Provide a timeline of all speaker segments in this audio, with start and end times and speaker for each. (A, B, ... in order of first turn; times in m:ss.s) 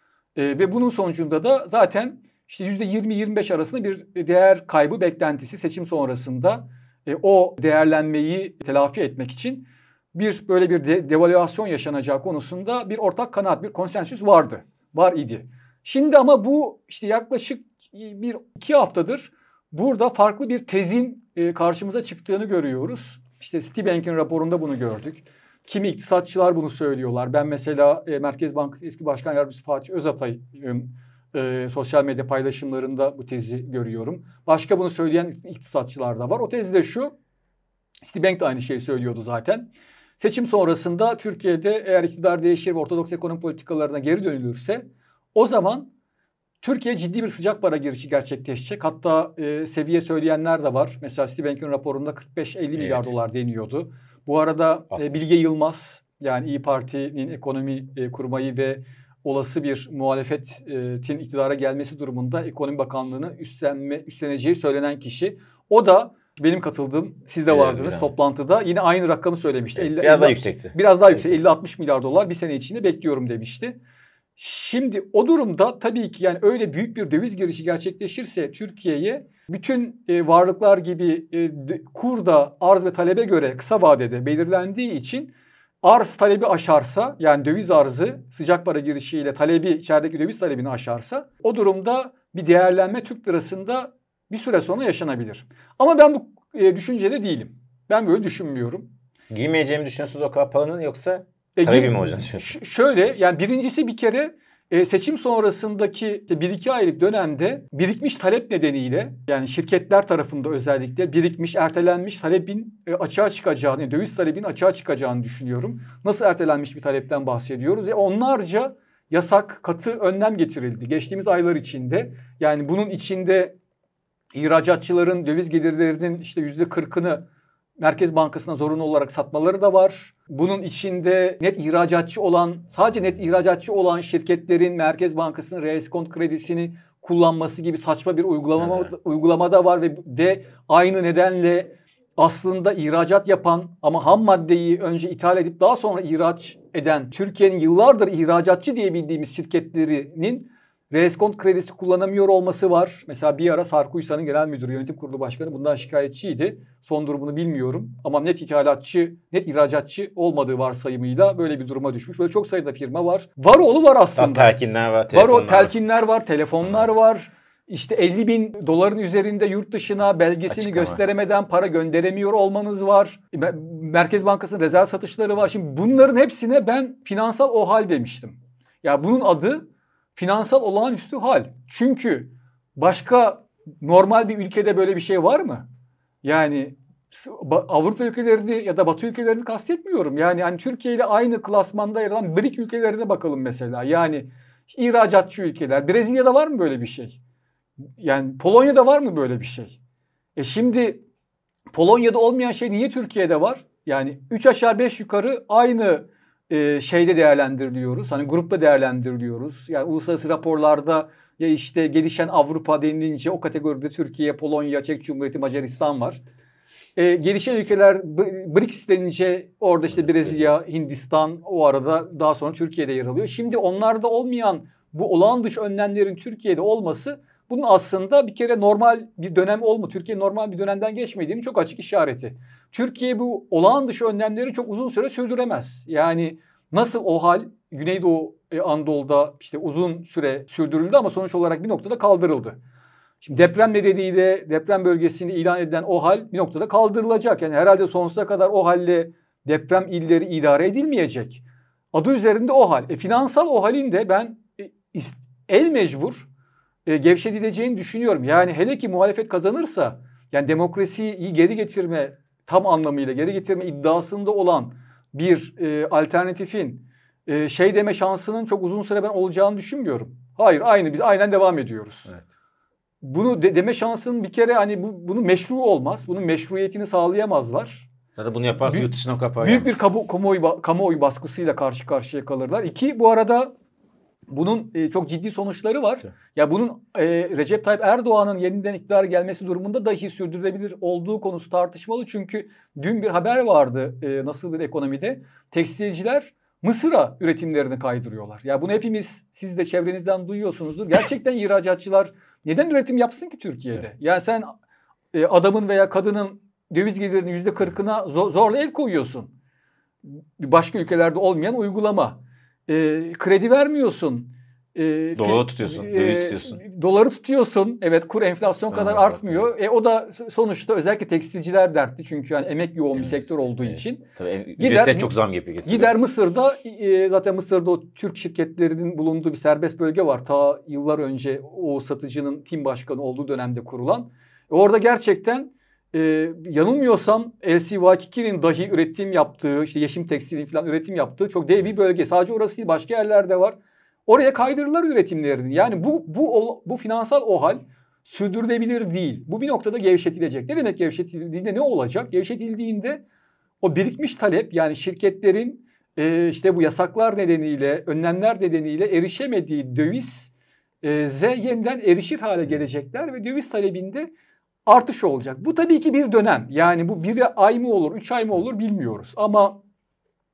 0:00.4-0:37.1 A
0:38.0-0:45.9 A
0:46.6-1:13.8 A
0:52.8-0:53.1 B
1:07.5-1:08.1 B
1:09.7-1:11.4 B
1:14.4-1:38.9 A
1:39.3-1:42.6 B
1:41.6-2:03.6 A
2:04.3-2:07.2 A
2:07.8-2:44.5 A
2:18.6-2:18.9 B
2:44.2-2:45.7 B
2:45.1-3:05.6 A
2:50.5-2:51.0 B
3:06.2-3:17.2 A
3:18.0-3:19.8 A
3:20.4-3:21.0 A
3:21.7-3:36.2 A
3:37.0-4:02.6 A
3:40.0-3:40.5 B
4:03.2-4:11.4 A
4:11.9-4:16.3 A
4:16.8-4:32.1 A
4:33.0-4:37.9 A
4:38.2-4:39.8 B
4:38.6-4:43.5 A
4:44.3-5:04.5 A
5:05.1-5:09.3 A
5:10.0-5:25.1 A
5:15.2-5:16.6 B
5:18.7-5:19.5 B
5:22.9-5:25.9 B
5:25.6-5:53.0 A
5:53.6-6:04.1 A
6:04.6-6:09.6 A